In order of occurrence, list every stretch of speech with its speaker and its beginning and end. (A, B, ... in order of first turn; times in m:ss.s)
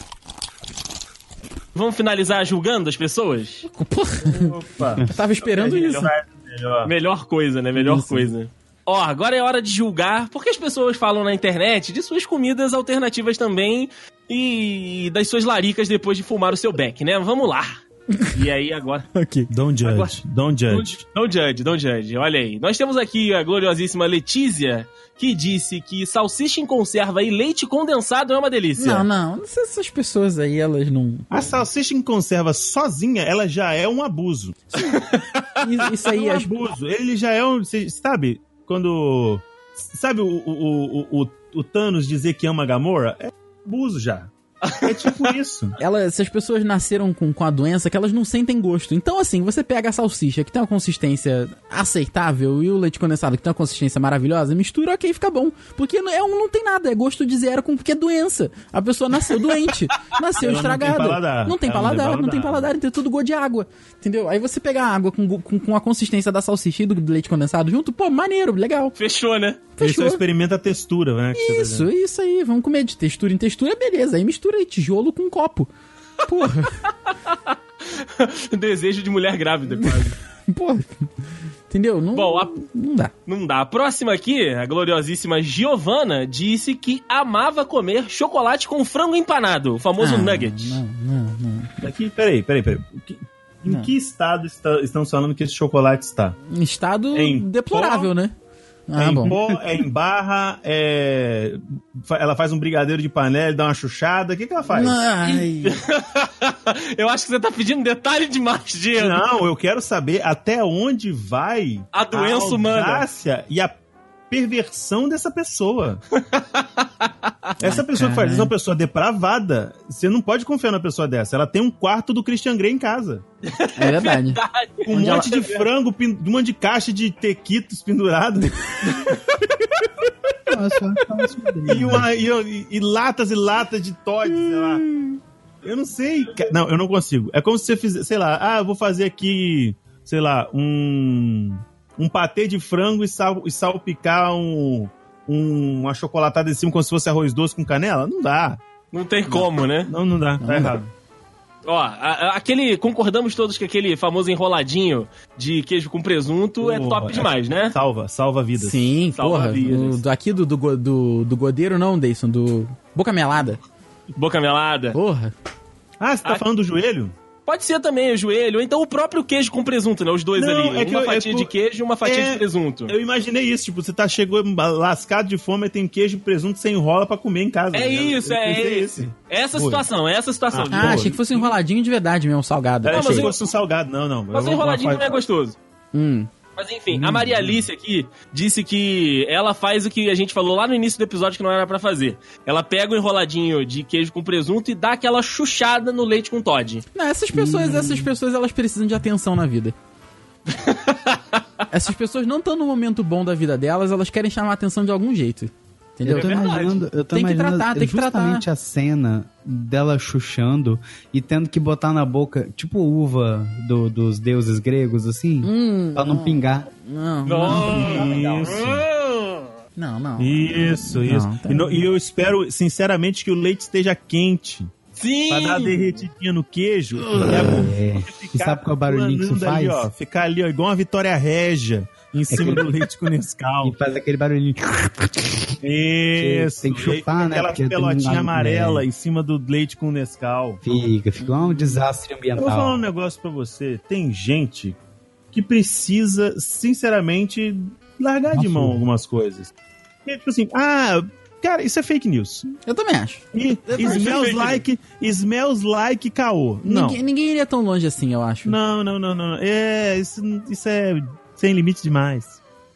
0:01.7-0:03.7 A
0:03.7-0:06.1 B
0:04.2-0:06.9 C
0:05.7-0:05.9 A
0:06.8-0:19.1 A
0:07.8-0:08.3 D
0:19.1-0:19.5 B
0:19.5-0:20.9 C
0:19.8-0:20.2 A
0:20.7-0:29.1 A
0:28.8-0:31.5 B
0:31.3-0:34.6 C
0:34.7-0:35.0 B
0:34.8-0:35.5 A
0:35.6-0:36.5 B
0:36.1-0:45.8 C
0:44.6-0:45.3 A
0:45.8-1:08.9 B
1:00.4-1:02.7 C
1:09.0-1:09.6 A
1:09.8-1:10.2 B
1:09.8-1:11.9 C
1:11.4-1:15.7 B
1:16.2-1:16.8 B
1:17.3-1:20.2 A
1:20.5-1:21.1 B
1:21.7-1:23.1 B
1:22.1-1:22.5 A
1:23.2-1:30.8 A
1:30.0-1:31.7 B
1:31.8-1:36.3 C
1:36.5-1:38.3 B
1:37.1-1:38.1 C
1:38.9-1:39.3 B
1:39.0-1:45.0 C
1:39.3-1:39.6 D
1:44.7-1:45.8 B
1:45.3-1:49.2 A
1:49.0-1:53.8 C
1:51.9-1:53.0 A
1:54.3-1:56.0 C
1:56.2-1:56.8 A
1:57.6-2:03.2 C
1:57.6-1:58.5 B
2:03.4-2:05.5 A
2:03.8-2:05.3 B
2:04.8-2:09.0 C
2:10.5-2:12.1 D
2:11.6-2:14.8 C
2:14.4-2:15.2 B
2:15.6-2:28.6 C
2:28.9-2:29.9 A
2:29.3-2:30.9 C
2:30.4-2:30.8 B
2:31.6-2:37.8 A
2:36.6-2:38.9 C
2:38.6-2:43.6 B
2:39.2-2:40.0 A
2:44.1-2:45.0 A
2:44.9-2:45.3 B
2:46.0-2:47.1 C
2:47.5-2:53.0 A
2:50.4-2:59.8 C
2:57.7-3:01.2 A
3:00.5-3:01.6 C
3:00.7-3:03.3 B
3:02.8-3:05.2 C
3:02.9-3:03.5 A
3:04.3-3:05.6 A
3:05.9-3:06.3 B
3:06.6-3:16.8 A
3:06.9-3:07.6 D
3:16.9-3:19.7 B
3:17.3-3:18.1 D
3:20.5-3:21.4 A
3:21.7-3:28.4 B
3:26.0-3:36.7 D
3:26.1-3:26.8 A
3:35.4-3:37.8 B
3:37.2-3:39.5 A
3:37.4-3:38.8 C
3:37.5-3:38.8 D
3:39.8-3:41.8 B
3:40.2-3:44.7 C
3:45.0-3:45.9 A
3:45.3-3:53.8 C
3:47.2-3:49.9 D
3:52.3-3:52.6 D
3:53.6-3:55.6 D
3:55.6-4:00.6 C
3:56.2-3:58.8 D
4:00.6-4:02.8 D
4:01.2-4:01.7 B
4:02.4-4:04.8 C
4:05.3-4:09.5 C
4:08.3-4:08.8 D
4:10.0-4:12.5 C
4:12.6-4:13.2 B
4:13.3-4:17.0 C
4:13.7-4:14.6 A
4:16.6-4:18.6 B
4:18.4-4:22.4 C